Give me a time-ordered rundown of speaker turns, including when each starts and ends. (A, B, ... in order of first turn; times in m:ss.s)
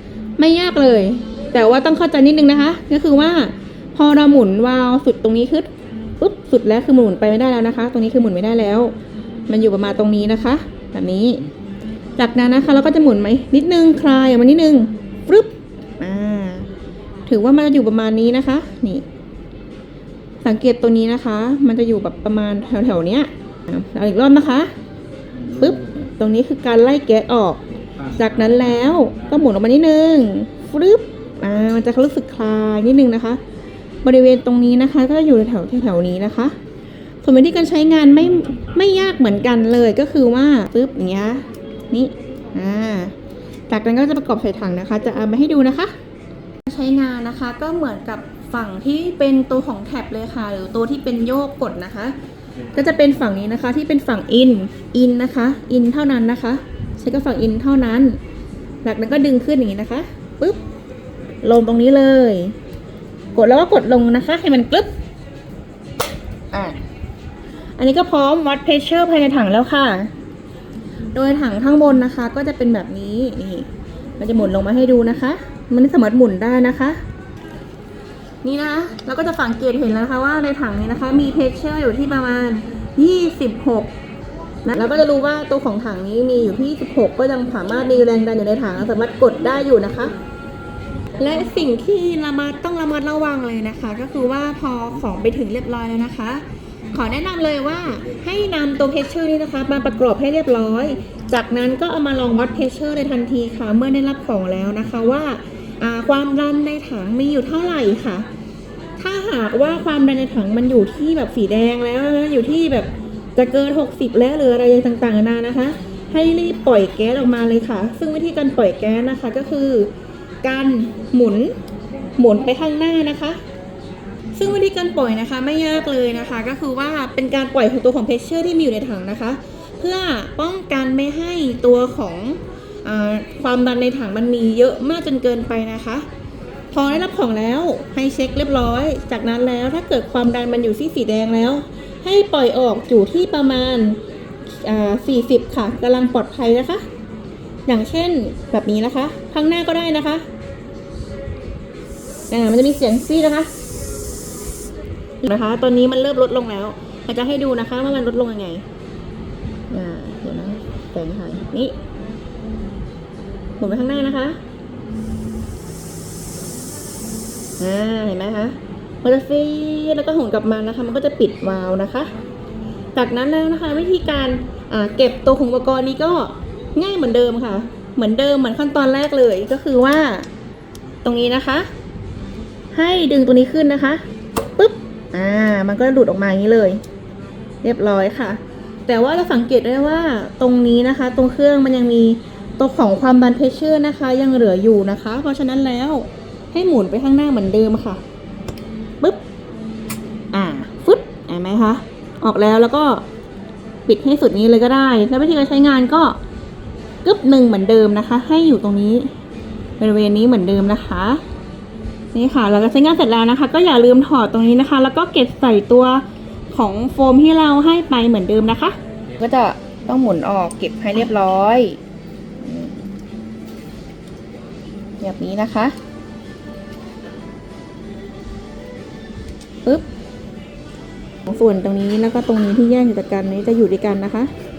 0:00.4-0:08.9 A
0:09.5-0:11.4 A
0:12.2-0:16.7 A
0:17.3-0:19.0 A
0:20.4-0:24.7 A
0:25.5-0:27.6 A
0:28.2-0:33.4 A
0:34.0-0:36.5 A
0:37.2-0:43.1 A
0:43.7-0:45.9 A
0:46.6-0:52.2 A
0:52.7-0:58.2 A
0:58.8-1:00.6 A
1:01.4-1:02.5 A
1:03.3-1:04.9 A
1:06.5-1:06.8 A
1:07.8-1:10.1 A
1:11.1-1:17.0 A
1:18.4-1:23.9 A
1:24.6-1:30.1 A
1:31.2-1:48.3 A
1:49.0-1:59.9 A
2:00.4-2:01.6 A
2:02.2-2:03.4 A
2:04.3-2:16.0 A
2:16.7-2:24.0 A
2:24.5-2:26.8 A
2:27.6-2:30.2 A
2:32.3-2:33.5 A
2:35.2-2:38.6 A
2:39.7-2:41.8 A
2:43.6-2:44.4 A
2:47.6-2:52.1 A
2:52.9-3:00.3 A
3:01.0-3:01.7 A
3:02.7-3:04.0 A
3:04.6-3:06.8 A
3:07.6-3:18.0 A
3:20.3-3:23.0 A
3:23.8-3:26.2 A
3:27.0-3:29.1 A
3:29.8-3:31.2 A
3:32.1-3:41.8 A
3:42.4-3:42.9 A
3:45.0-3:45.8 A
3:51.3-3:54.3 A